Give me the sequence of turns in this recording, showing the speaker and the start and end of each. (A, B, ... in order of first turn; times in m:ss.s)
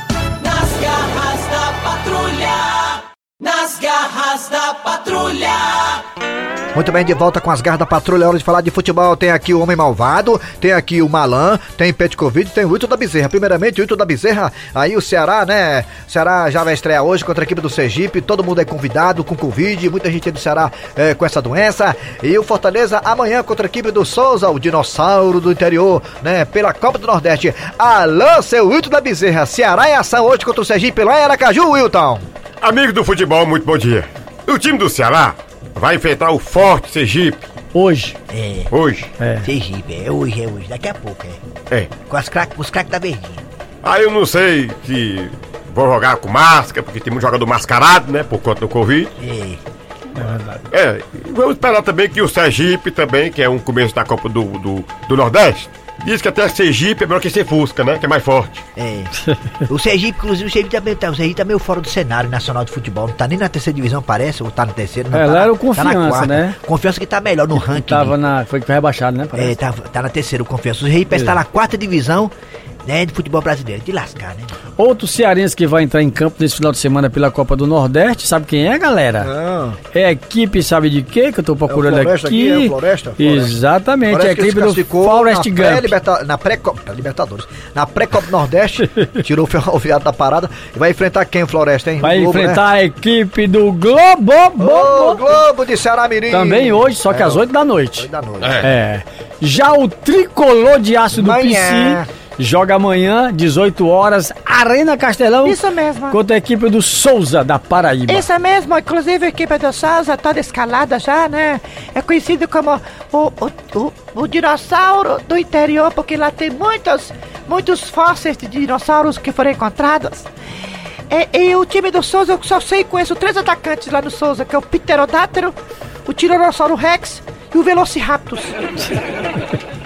0:00.4-0:06.0 A
0:06.7-0:32.2 B
0:32.6-0:37.4 C
0:37.7-0:38.2 D
0:38.3-0:38.7 E
0:38.7-0:39.1 C
0:39.2-0:39.5 D
0:39.4-0:41.4 E
0:42.1-0:43.4 E
0:43.8-0:49.1 C
0:49.2-0:49.6 E
0:50.2-0:50.6 D
0:50.7-0:58.6 C
0:58.8-0:59.1 E
0:59.6-1:08.2 E
1:05.1-1:06.6 D
1:07.6-1:09.6 D
1:09.3-1:12.3 E
1:11.1-1:11.4 D
1:12.8-1:14.5 E
1:14.8-1:19.3 D
1:19.2-1:19.8 B
1:19.9-1:25.9 D
1:21.7-1:23.5 B
1:24.1-1:32.6 B
1:32.0-1:35.2 D
1:34.6-1:38.6 B
1:36.3-1:38.1 D
1:38.4-1:38.7 C
1:38.6-1:45.6 D
1:41.1-1:42.1 B
1:45.4-1:46.2 F
1:46.1-1:48.3 D
1:48.1-2:00.3 F
2:01.1-2:08.6 F